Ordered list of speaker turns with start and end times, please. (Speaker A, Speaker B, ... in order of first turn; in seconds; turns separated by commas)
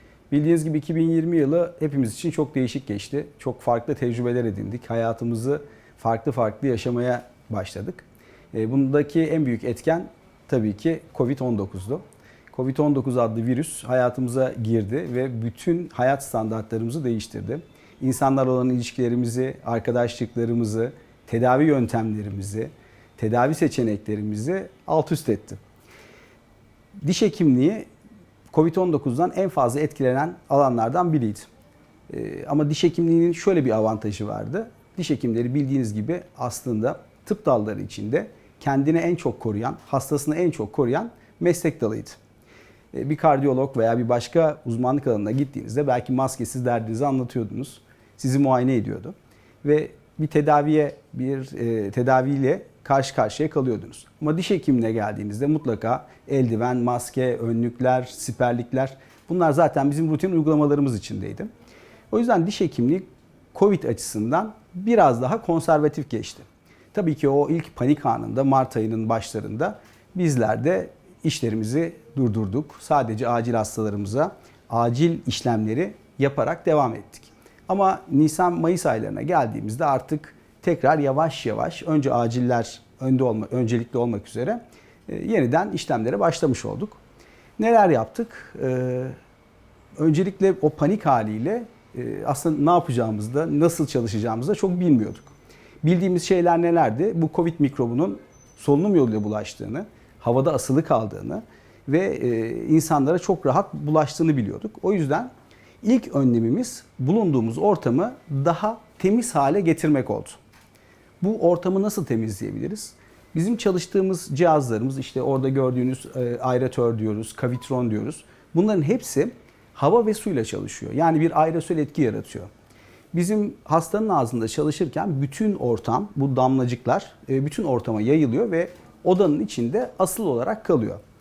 Speaker A: 0.3-12.0, Speaker A: 12.5-25.6, Speaker A: 27.0-27.9, Speaker A: 28.5-31.5, Speaker A: 32.1-42.2, Speaker A: 42.9-61.5, Speaker A: 62.1-87.0, Speaker A: 87.6-89.2, Speaker A: 90.0-95.3, Speaker A: 95.8-105.3, Speaker A: 105.8-110.4, Speaker A: 111.2-122.5, Speaker A: 123.1-131.0